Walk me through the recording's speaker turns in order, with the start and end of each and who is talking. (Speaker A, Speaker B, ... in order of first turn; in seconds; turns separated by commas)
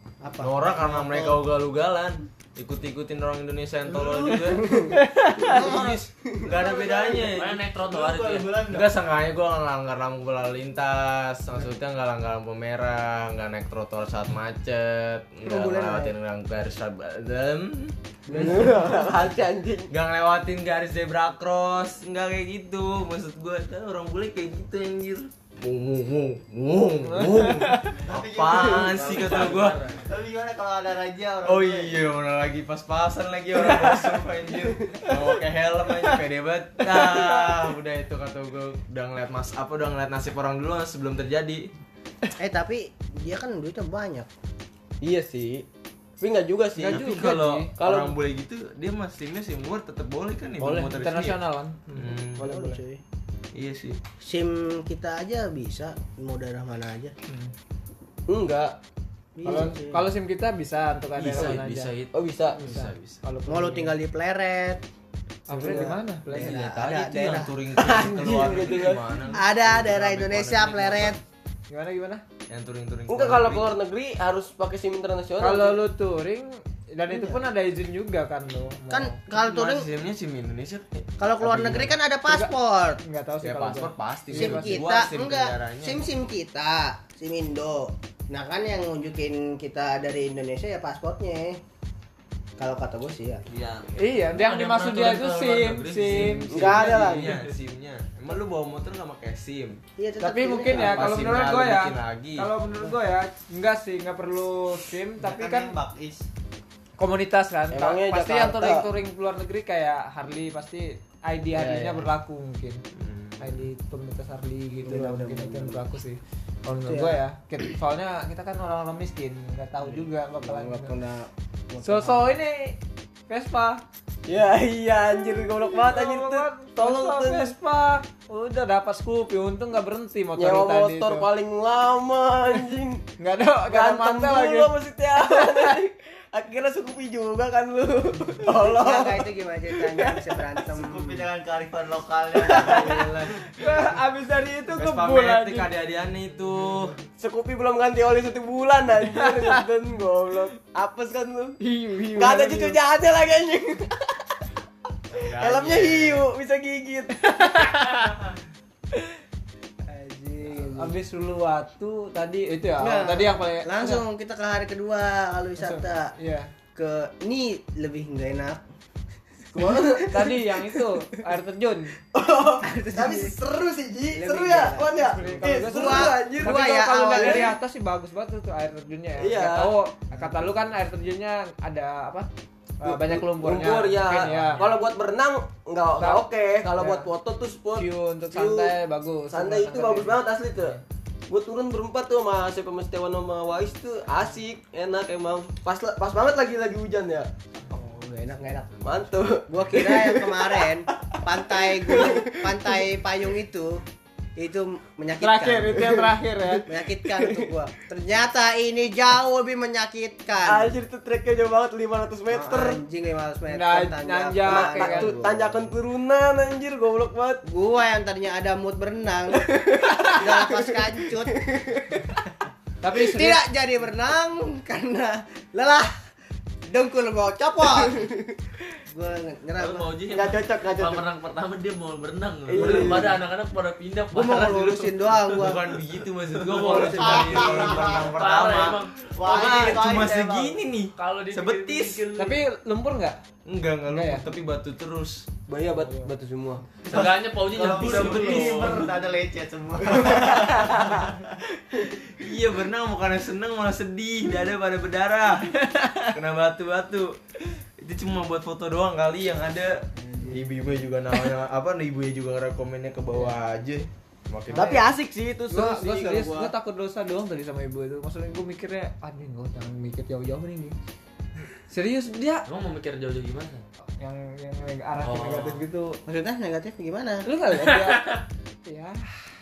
Speaker A: 0.2-1.4, Speaker B: 0.4-4.7, Speaker C: 3.9-4.5, Speaker D: 4.9-5.6, Speaker A: 5.5-5.9, Speaker B: 5.5-7.6, Speaker C: 5.5-8.9, Speaker E: 7.3-8.6, Speaker B: 8.7-18.5, Speaker A: 15.4-16.1, Speaker F: 18.3-19.9, Speaker B: 19.9-29.9, Speaker D: 27.0-28.0, Speaker C: 28.0-32.0, Speaker F: 28.4-29.8, Speaker E: 29.3-29.7, Speaker B: 31.4-41.7, Speaker A: 42.4-44.3, Speaker F: 45.0-45.6, Speaker F: 46.2-47.0, Speaker D: 46.8-47.7, Speaker B: 46.8-51.4, Speaker F: 47.8-48.1, Speaker D: 50.6-52.7, Speaker B: 51.9-52.4, Speaker A: 52.4-53.0, Speaker F: 52.4-52.8, Speaker B: 53.5-54.0, Speaker A: 54.2-57.1, Speaker D: 57.3-57.5, Speaker F: 58.3-58.8, Speaker A: 59.4-60.1, Speaker D: 59.4-61.9, Speaker F: 59.5-59.8, Speaker B: 61.2-63.2, Speaker F: 62.1-62.6, Speaker D: 62.6-63.9, Speaker A: 63.5-64.8, Speaker D: 65.5-66.6, Speaker F: 65.5-65.9, Speaker A: 65.5-67.5, Speaker B: 66.3-71.2, Speaker F: 67.8-69.2, Speaker A: 69.3-71.2, Speaker D: 71.7-72.2, Speaker B: 72.5-73.7, Speaker F: 73.1-75.8, Speaker D: 75.4-79.2, Speaker A: 77.1-77.4, Speaker A: 78.9-79.9, Speaker B: 79.3-81.9, Speaker A: 81.2-83.0, Speaker D: 82.3-84.8, Speaker B: 83.4-86.0, Speaker A: 84.3-91.6, Speaker A: 92.6-93.4, Speaker E: 93.5-96.8, Speaker D: 93.9-96.5, Speaker B: 95.6-99.8, Speaker F: 96.5-97.4, Speaker A: 100.0-101.2, Speaker D: 100.2-105.8, Speaker B: 100.7-102.5, Speaker C: 105.2-106.2, Speaker D: 107.0-112.8, Speaker F: 107.7-108.9, Speaker F: 111.6-112.0, Speaker B: 112.9-113.6, Speaker D: 113.4-120.9, Speaker A: 114.8-115.8, Speaker A: 116.8-117.2, Speaker A: 119.8-122.4, Speaker D: 121.8-122.8, Speaker D: 123.3-123.8, Speaker F: 124.3-127.5, Speaker D: 125.8-131.3, Speaker F: 130.4-133.0, Speaker D: 133.2-135.8, Speaker F: 133.7-139.2, Speaker A: 138.5-141.3, Speaker F: 139.8-140.4, Speaker C: 140.7-143.3, Speaker D: 142.4-145.7, Speaker B: 144.8-146.9, Speaker F: 147.2-151.6, Speaker D: 149.2-149.6, Speaker D: 151.6-152.8, Speaker F: 152.2-154.2, Speaker B: 155.2-156.2, Speaker F: 155.2-157.3, Speaker D: 157.2-158.1, Speaker A: 159.8-160.9, Speaker D: 160.4-164.0, Speaker A: 162.8-166.1, Speaker D: 165.6-166.5, Speaker A: 166.7-168.6, Speaker F: 169.5-170.8, Speaker A: 169.6-169.9, Speaker D: 170.0-171.9, Speaker F: 172.1-177.5, Speaker A: 172.6-173.3, Speaker A: 174.1-177.5, Speaker D: 175.0-182.3, Speaker F: 179.2-179.7, Speaker A: 180.1-180.5, Speaker D: 182.8-184.7, Speaker F: 182.8-188.7, Speaker D: 186.0-187.1, Speaker D: 187.7-190.8, Speaker F: 189.3-190.8, Speaker F: 191.3-197.3, Speaker A: 197.7-203.8, Speaker F: 198.8-202.8, Speaker A: 204.4-206.0, Speaker D: 205.2-206.6, Speaker F: 205.8-206.0, Speaker A: 206.7-210.8, Speaker F: 207.0-207.5, Speaker F: 210.4-212.8, Speaker A: 212.3-215.7, Speaker D: 213.5-215.1, Speaker F: 214.5-217.4, Speaker A: 217.4-219.5, Speaker F: 219.4-222.0, Speaker A: 220.0-221.3, Speaker D: 222.8-223.4, Speaker A: 222.9-225.9, Speaker A: 226.7-228.0, Speaker A: 228.9-229.9, Speaker B: 229.6-230.4, Speaker F: 230.1-231.0, Speaker E: 230.1-234.7, Speaker B: 232.0-233.1, Speaker F: 232.5-233.2, Speaker A: 234.1-235.8, Speaker B: 234.3-242.1, Speaker E: 236.4-239.7, Speaker C: 236.6-238.3, Speaker A: 236.6-237.6, Speaker C: 239.1-240.3, Speaker E: 240.9-242.4, Speaker D: 242.2-243.2, Speaker B: 243.4-245.2, Speaker D: 243.9-244.2, Speaker F: 245.5-246.8, Speaker D: 245.8-246.1, Speaker E: 246.8-248.8, Speaker B: 246.9-248.9, Speaker C: 246.9-251.2, Speaker B: 252.2-255.5, Speaker D: 255.6-256.1, Speaker B: 256.1-257.2, Speaker B: 257.8-264.8, Speaker D: 264.5-264.8, Speaker F: 264.5-266.5, Speaker D: 265.5-270.7, Speaker D: 271.7-272.4, Speaker E: 272.4-273.6, Speaker D: 274.0-276.0, Speaker E: 275.0-275.6, Speaker A: 276.1-277.2, Speaker D: 277.2-278.1, Speaker E: 277.5-278.2, Speaker D: 278.6-279.1